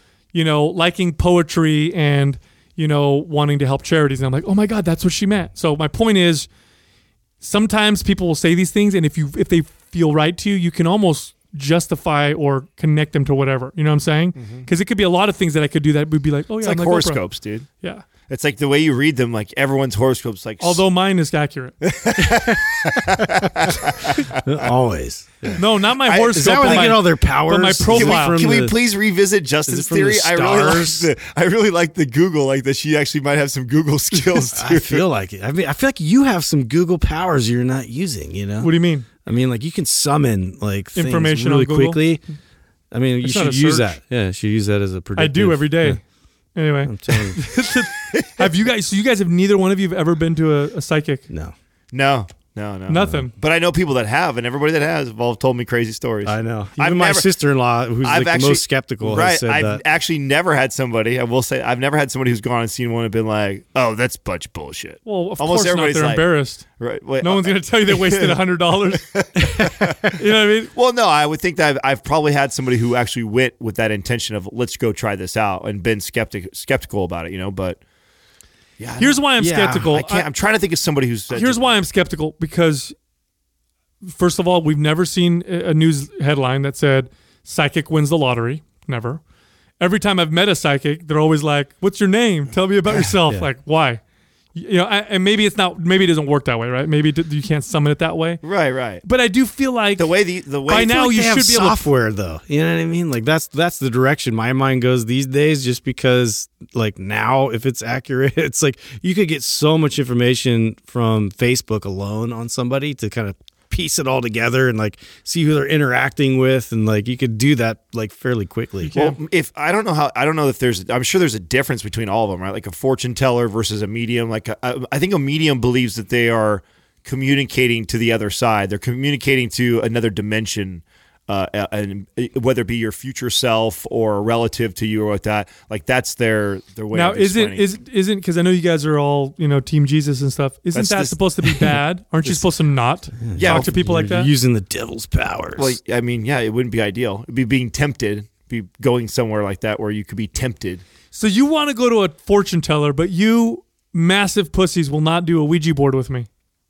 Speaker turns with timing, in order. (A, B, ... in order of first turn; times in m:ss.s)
0:00.3-0:06.5 A
0:07.4-0:17.2 A
0:14.4-0:14.7 B
0:16.6-0:17.7 B
0:18.3-0:20.8 B
0:20.6-0:21.8 A
0:21.8-0:24.6 B
0:22.2-0:23.8 C
0:24.3-0:25.6 C
0:25.5-0:27.0 B
0:25.6-0:28.4 A
0:26.3-0:28.8 C
0:27.9-0:35.0 B
0:29.7-0:31.1 C
0:34.5-0:38.7 C
0:38.6-0:39.1 A
0:39.2-0:42.2 C
0:41.0-0:42.0 A
0:42.9-0:46.0 C
0:43.2-0:44.0 A
0:45.2-0:46.0 A
0:46.6-0:51.2 A
0:46.8-0:47.4 C
0:51.9-0:57.3 B
0:52.9-0:53.3 A
0:56.2-0:59.8 C
0:58.0-1:06.3 B
1:05.0-1:06.6 A
1:06.8-1:08.4 B
1:07.2-1:09.1 A
1:09.1-1:10.1 B
1:10.1-1:10.7 A
1:10.8-1:17.8 B
1:18.8-1:21.7 B
1:19.0-1:20.3 A
1:19.4-1:19.9 C
1:21.3-1:22.9 A
1:24.0-1:29.2 A
1:29.8-1:34.0 A
1:34.6-1:38.4 A
1:38.4-1:39.0 B
1:39.0-1:40.1 A
1:40.0-1:40.9 B
1:40.7-1:41.8 A
1:40.7-1:58.9 C
1:58.9-1:59.2 A
1:58.9-2:17.7 B
2:16.9-2:24.3 A
2:20.8-2:21.7 B
2:23.2-2:25.8 C
2:23.4-2:23.7 B
2:25.6-2:30.8 B
2:31.1-2:36.3 A